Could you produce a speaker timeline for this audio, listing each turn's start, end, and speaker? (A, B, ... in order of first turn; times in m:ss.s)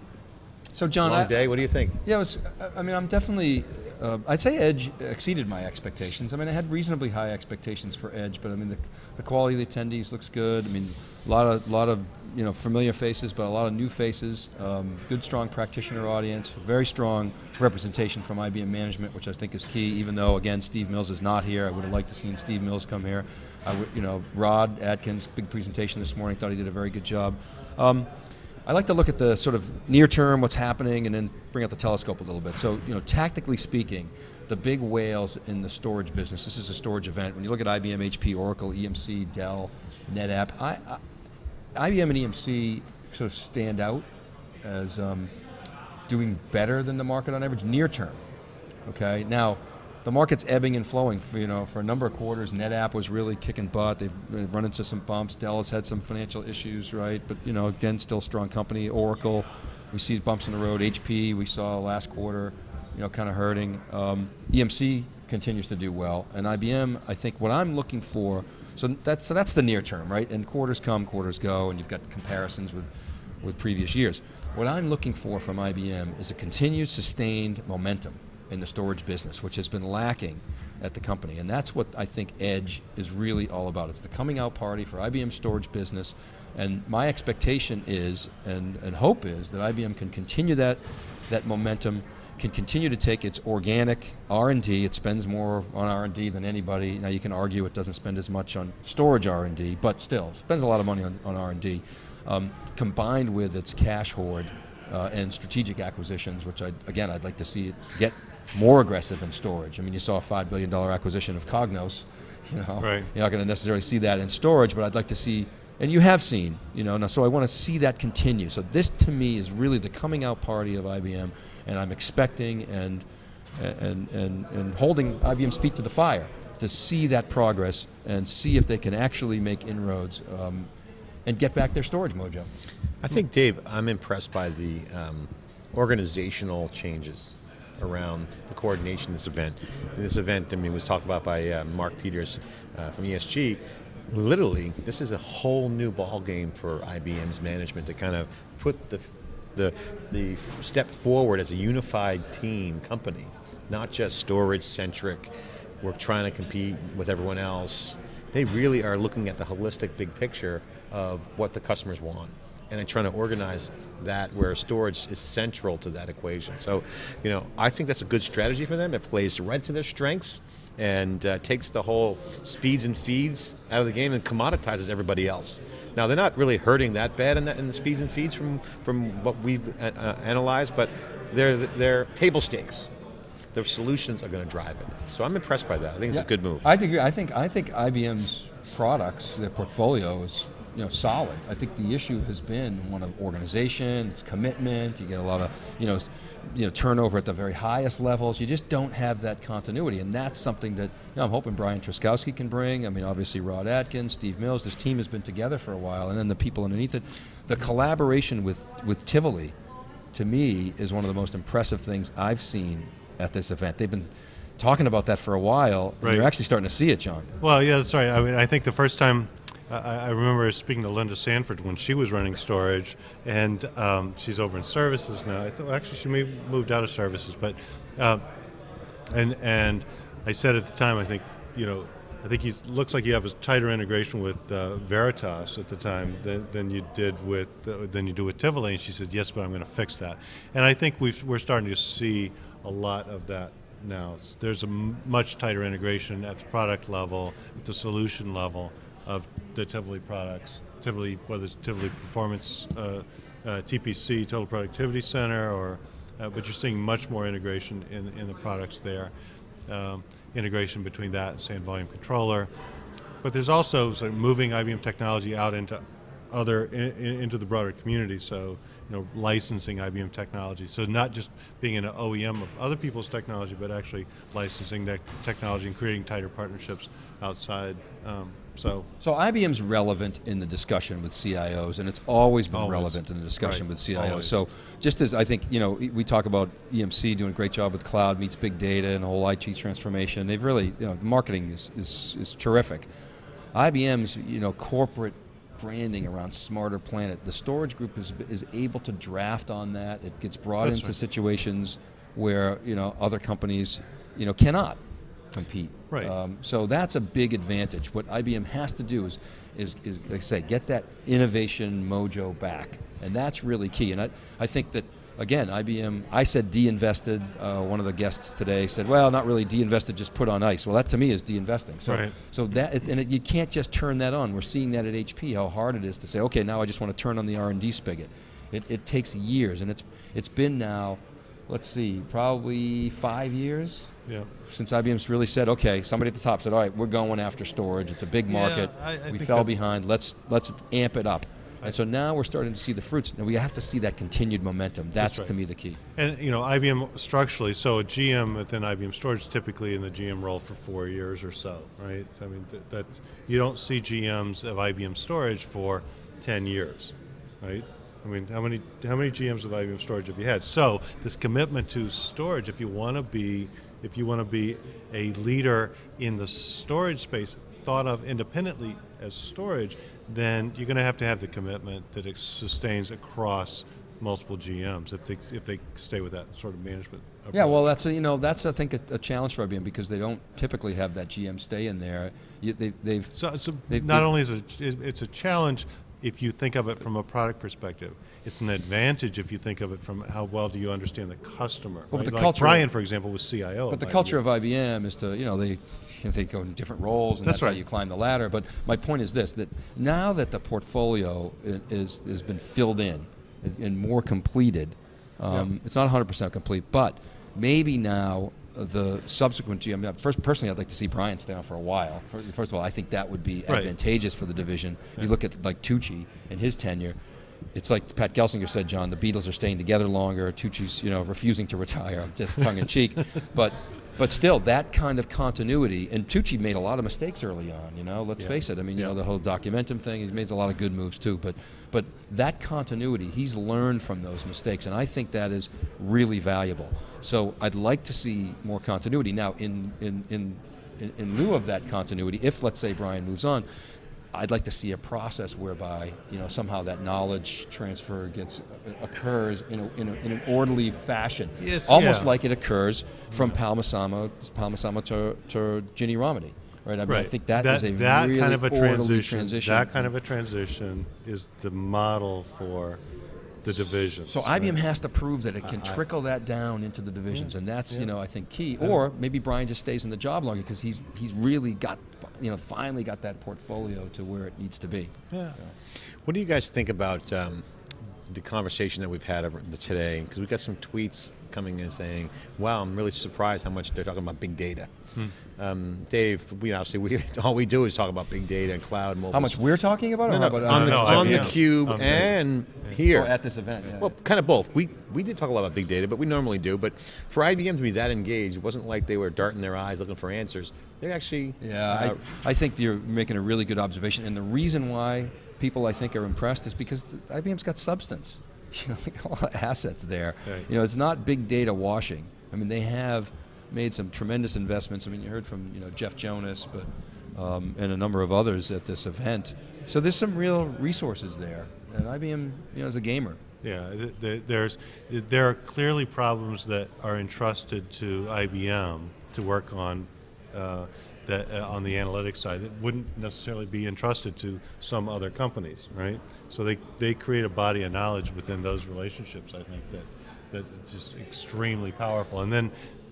0:00.8-0:01.4 A
0:01.0-0:02.0 B
0:02.0-0:28.1 A
0:28.7-0:41.0 A
0:41.8-0:44.1 A
0:44.6-0:45.3 A
0:46.1-0:48.2 A
0:48.9-1:12.9 A
1:13.4-2:03.0 A
1:52.8-1:53.1 C
2:03.6-2:10.7 A
2:11.3-2:12.5 A
2:13.0-2:35.3 B
2:35.8-3:02.9 B
3:03.5-3:06.7 B
3:06.1-3:29.5 A
3:30.1-3:34.1 A
3:34.6-3:37.3 A
3:36.0-3:36.3 C
3:37.4-3:48.2 C
3:49.1-4:19.1 C
4:19.7-4:22.5 C
4:23.2-4:38.9 C
4:39.0-4:52.9 A
4:42.5-4:44.3 C
4:53.6-5:04.8 A
5:00.6-5:00.9 C
5:05.3-5:33.9 A
5:21.9-5:22.2 C
5:34.5-5:45.8 A
5:38.3-5:39.5 C
5:45.0-5:45.3 C
5:46.0-6:17.7 C
6:17.3-6:24.1 A
6:23.2-6:34.2 C
6:31.9-6:32.7 A
6:33.7-6:57.0 A
6:37.2-6:37.6 C
6:53.5-6:53.7 C
6:57.6-7:23.4 A
7:08.2-7:09.0 C
7:24.1-7:39.9 A
7:31.4-7:32.2 C
7:33.1-7:33.4 C
7:36.9-7:42.8 C
7:43.4-7:44.6 C
7:44.1-7:55.5 A
7:45.4-7:45.8 C
7:47.1-7:47.9 C
7:55.1-7:55.4 C
7:56.0-7:57.5 B
7:58.1-8:04.7 B
8:05.4-8:09.4 B
8:09.1-8:11.4 A
8:10.1-8:12.1 C
8:10.4-8:13.1 B
8:12.9-8:13.9 A
8:13.8-8:22.0 B
8:21.4-8:43.2 A
8:43.4-9:02.5 C